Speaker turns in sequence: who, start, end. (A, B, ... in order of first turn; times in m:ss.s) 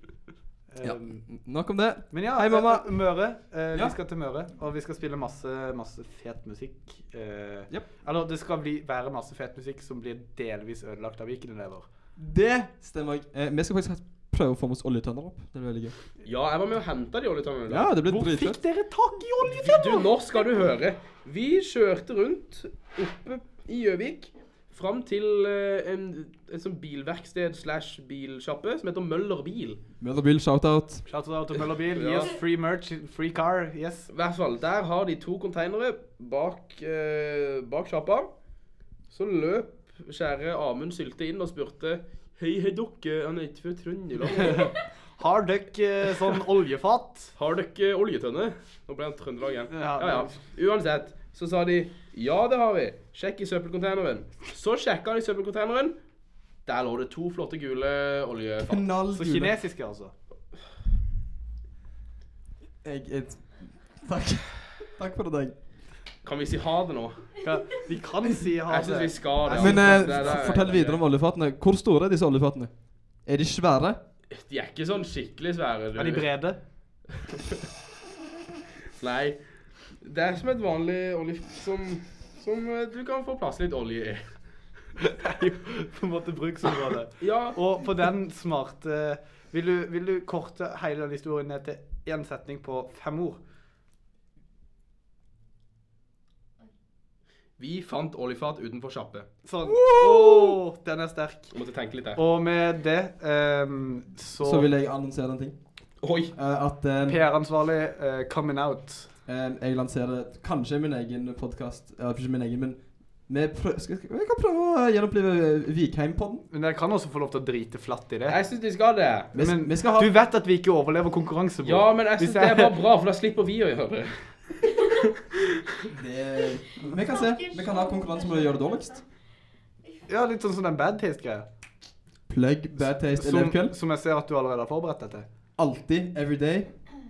0:00.7-0:01.2 A
0:00.8-0:03.9 B
0:02.1-0:11.9 A
0:12.2-0:15.9 B
0:16.2-0:17.9 C
0:17.7-0:18.6 B
0:18.0-0:20.4 A
0:19.5-0:29.8 C
0:30.0-0:31.0 B
0:31.1-0:34.1 A
0:31.8-0:32.4 C
0:34.1-0:38.3 C
0:39.1-0:44.8 C
0:44.5-0:47.4 A
0:47.4-0:56.0 C
0:49.7-0:50.4 A
0:56.6-0:58.8 C
0:58.6-0:59.5 B
0:59.1-1:00.1 A
1:02.8-1:05.6 B
1:06.2-1:07.3 C
1:07.4-1:10.7 A
1:08.7-1:11.0 C
1:09.5-1:14.0 B
1:14.3-1:16.3 C
1:15.9-1:16.6 A
1:19.0-1:24.3 C
1:25.2-1:33.4 A
1:27.2-1:27.6 C
1:37.6-1:39.3 C
1:39.4-1:41.6 A
1:39.8-1:40.6 B
1:41.5-1:42.2 C
1:42.1-1:44.7 A
1:44.4-1:47.2 B
1:46.0-1:46.3 C
1:47.0-1:49.1 A
1:49.3-1:56.4 B
1:56.5-1:58.4 A
1:58.3-1:59.3 C
1:59.3-2:00.2 B
1:59.3-2:02.8 A
2:01.6-2:05.0 C
2:05.9-2:09.0 B
2:10.0-2:11.4 A
2:12.3-2:13.8 B
2:12.7-2:15.3 A
2:15.6-2:16.8 B